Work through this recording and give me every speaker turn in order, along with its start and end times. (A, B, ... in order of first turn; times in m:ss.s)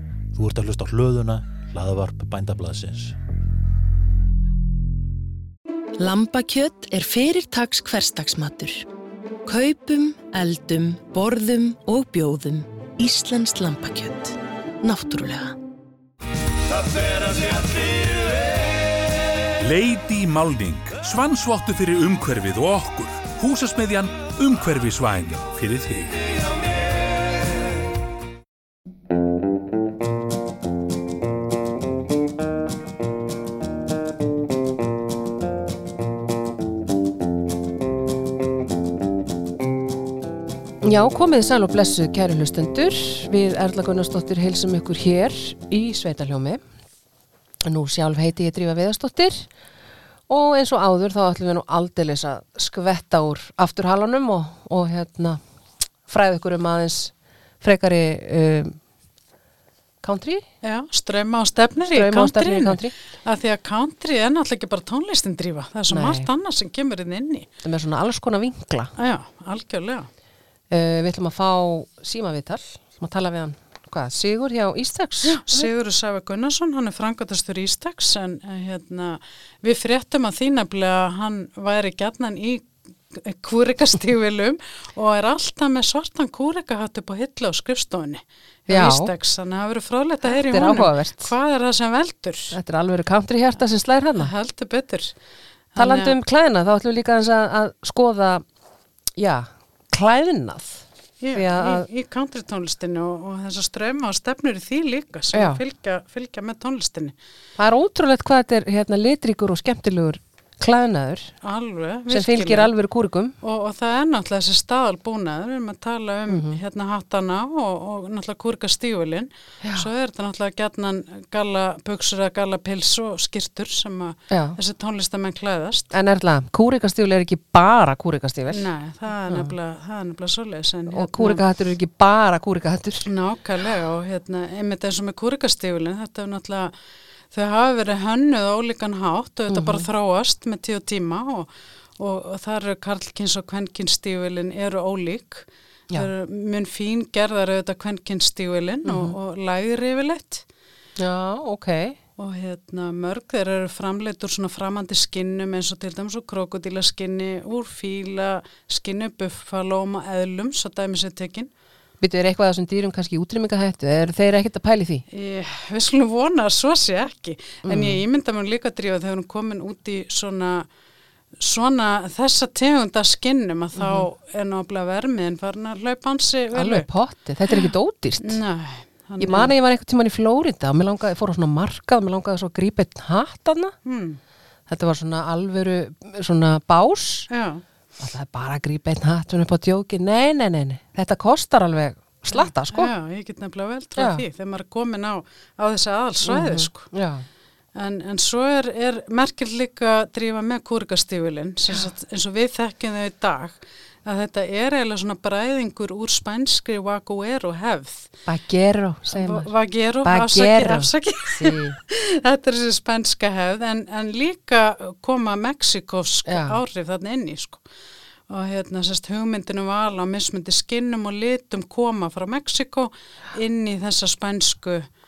0:00.3-0:03.1 A
0:06.0-0:08.8 B
0:09.4-0:15.6 B
0:19.6-0:26.2 C
0:40.8-0:46.6 D
0:47.6-0:49.5 D
0:50.3-0:55.4 D
0:56.1-0:58.8 D
1:00.0-1:00.4 D
1:00.6-1:07.5 E
1:01.9-1:02.9 D
1:05.9-1:06.3 D
1:07.6-1:08.9 D
1:09.0-1:10.1 E
1:10.7-1:15.7 D
1:15.3-1:32.5 E
1:28.7-1:29.1 D
1:30.2-1:31.3 D
1:32.5-1:34.3 D
1:34.2-1:35.1 E
1:35.7-1:36.1 E
1:35.8-1:38.4 D
1:39.1-1:41.9 D
1:41.2-1:47.1 E
1:45.3-1:45.6 D
1:47.6-1:51.3 D
1:51.4-1:52.7 E
1:52.1-1:53.3 D
1:53.4-2:05.9 E
1:56.3-1:56.6 D
1:59.6-1:59.9 D
2:04.3-2:04.6 D
2:05.9-2:08.7 D
2:08.5-2:11.4 E
2:10.9-2:13.1 D
2:13.0-2:16.7 E
2:17.3-2:30.4 E
2:19.5-2:19.9 D
2:28.8-2:29.1 D
2:31.0-2:32.0 D
2:32.2-2:41.5 E
2:42.0-2:45.0 D
2:45.1-2:50.7 E
2:47.6-2:48.0 D
2:51.4-2:56.8 E
2:53.8-2:54.1 D
2:56.5-2:58.4 D
2:58.2-2:59.5 E
2:59.2-3:03.7 D
3:03.8-3:04.2 E
3:04.7-3:07.3 D
3:07.3-3:07.6 E
3:08.0-3:12.9 D
3:12.3-3:16.9 E
3:14.0-3:14.2 D
3:16.2-3:17.2 D
3:17.7-3:28.1 E
3:28.3-3:29.5 D
3:29.1-3:37.6 E
3:30.0-3:31.8 D
3:36.2-3:36.6 D
3:38.3-3:44.9 E